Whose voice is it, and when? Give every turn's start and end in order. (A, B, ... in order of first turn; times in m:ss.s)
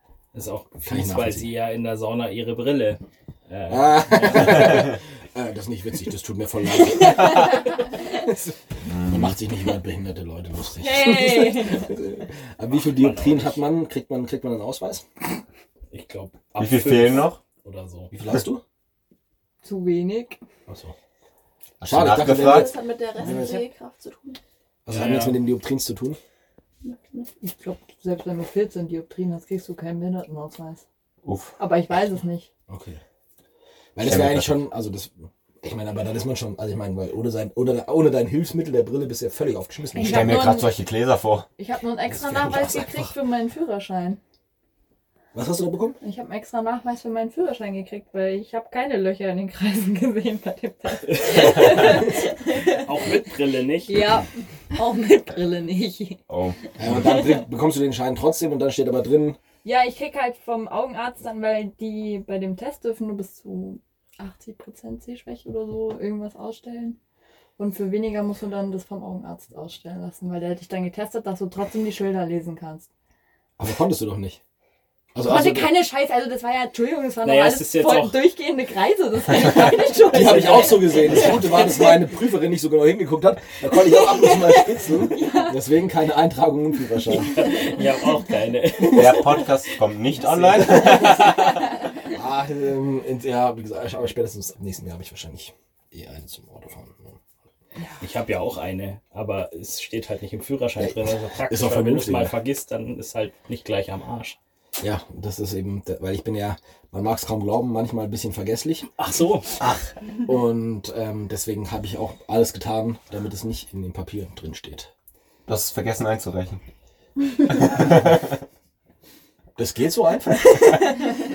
0:00.3-0:04.9 A
0:00.9-0:01.5 B
0:03.7-0:15.0 B
0:08.9-0:09.4 C
0:10.8-0:11.9 D
0:12.7-0:13.6 A
0:15.9-0:18.1 A
0:16.6-0:17.4 C
0:18.1-0:18.6 B
0:19.6-0:20.4 D
0:20.7-0:20.9 B
0:21.8-0:22.9 C
0:21.8-0:23.7 B
0:22.4-0:24.4 E
0:24.9-0:26.2 B
0:24.9-0:25.5 A
0:26.8-0:27.3 E
0:27.4-0:30.8 D
0:31.2-0:31.6 C
0:31.6-0:32.5 D
0:32.7-0:33.0 B
0:34.0-0:40.5 B
0:34.0-0:34.6 C
0:40.0-0:40.7 D
0:40.1-0:41.5 C
0:41.6-0:44.2 D
0:42.1-0:43.1 B
0:45.3-0:46.0 B
0:46.0-0:53.0 D
0:51.2-0:51.5 A
0:52.8-0:54.0 A
0:53.9-0:56.2 D
0:56.3-0:56.6 C
0:56.8-0:59.4 B
0:59.6-1:07.0 D
1:07.6-1:12.9 D
1:13.6-1:14.4 B
1:15.1-1:15.8 B
1:15.2-1:22.1 D
1:17.2-1:18.3 A
1:19.9-1:21.6 A
1:20.0-1:27.4 B
1:25.0-1:25.6 D
1:27.2-1:31.1 A
1:28.9-1:31.6 C
1:32.1-1:37.2 B
1:38.0-1:44.4 A
1:40.8-1:42.4 B
1:44.8-1:48.9 B
1:49.0-1:49.6 A
1:49.6-1:54.9 B
1:55.5-1:56.6 C
1:57.5-1:58.3 C
1:59.6-2:01.0 B